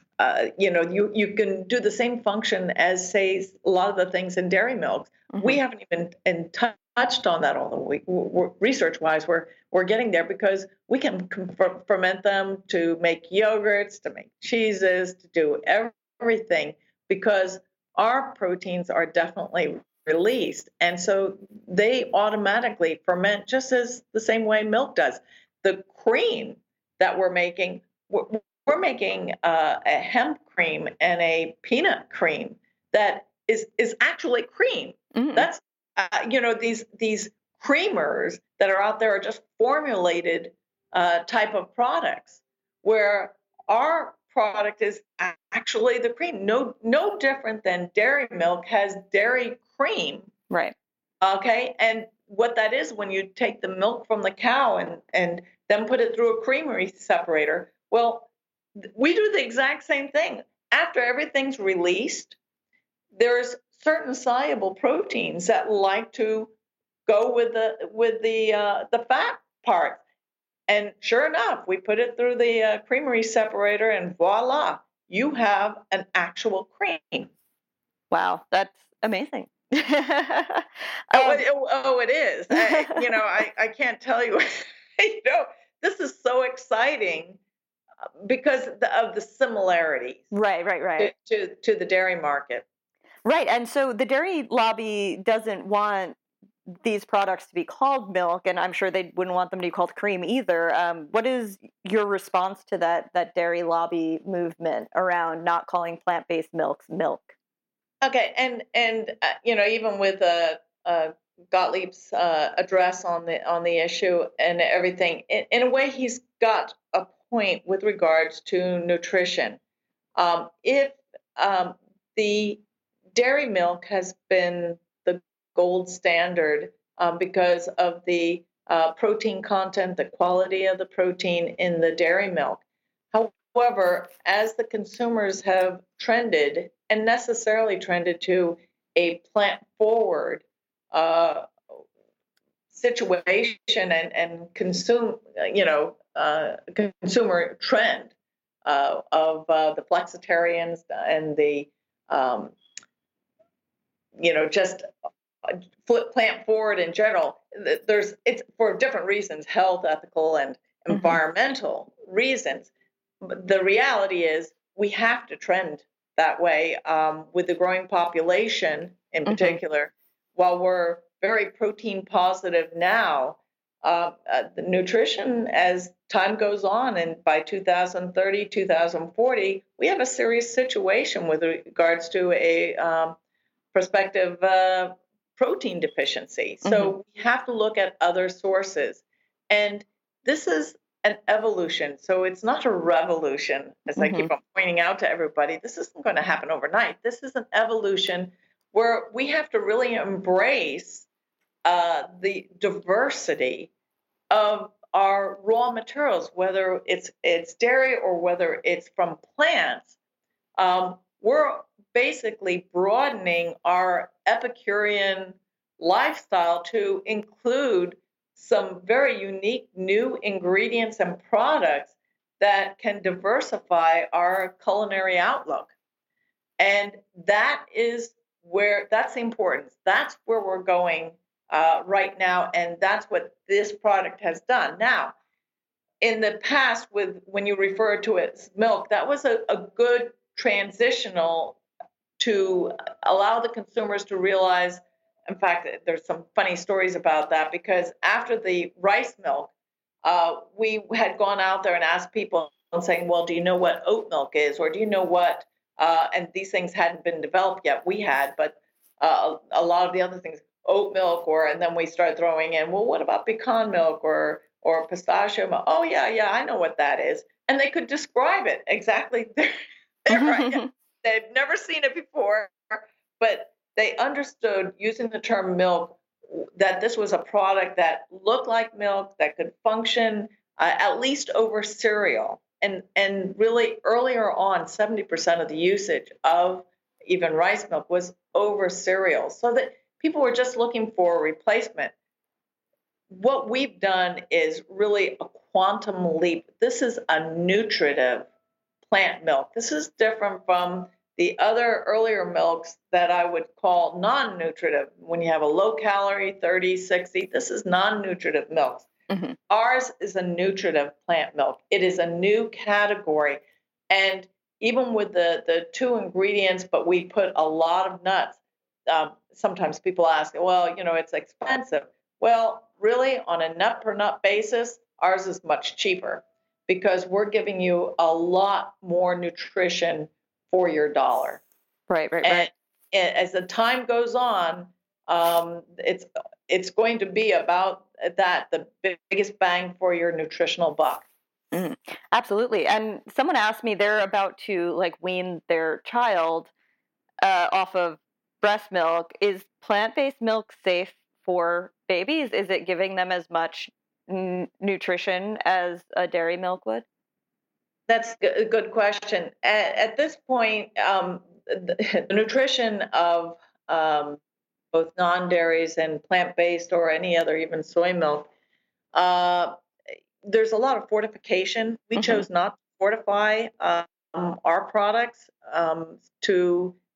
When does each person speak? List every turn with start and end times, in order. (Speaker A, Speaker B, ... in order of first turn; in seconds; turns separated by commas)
Speaker A: 0.2-50.3, Speaker B: 5.3-5.6, Speaker B: 35.1-35.5, Speaker A: 51.2-58.3, Speaker A: 58.8-62.4, Speaker A: 63.1-66.5, Speaker A: 67.1-70.0, Speaker A: 70.7-77.3, Speaker B: 78.1-81.4, Speaker A: 81.1-87.4, Speaker B: 82.5-83.1, Speaker A: 88.2-90.3, Speaker B: 90.3-91.1, Speaker A: 91.0-92.7, Speaker B: 93.2-107.3, Speaker A: 108.0-119.6, Speaker A: 120.2-122.6, Speaker A: 123.1-141.5, Speaker A: 142.7-148.1, Speaker A: 148.7-152.6, Speaker A: 154.2-154.8, Speaker A: 155.4-162.7, Speaker B: 160.9-161.2, Speaker A: 163.2-183.2, Speaker B: 169.3-169.6, Speaker A: 183.7-201.1, Speaker B: 186.6-186.9, Speaker B: 194.0-194.3, Speaker A: 201.7-203.7, Speaker A: 204.3-209.9, Speaker A: 210.6-225.7, Speaker A: 226.6-235.2, Speaker A: 236.0-241.6, Speaker A: 242.2-249.5, Speaker A: 250.0-269.5, Speaker A: 270.1-291.9, Speaker B: 270.1-270.7, Speaker A: 293.1-298.3, Speaker A: 298.9-308.9, Speaker B: 309.1-309.4, Speaker A: 309.5-331.4, Speaker B: 331.9-332.5, Speaker A: 332.2-341.1, Speaker B: 341.5-346.5, Speaker B: 347.2-356.9, Speaker A: 357.9-364.2, Speaker A: 364.7-368.3, Speaker A: 368.9-369.5, Speaker A: 370.2-376.8, Speaker B: 372.0-372.3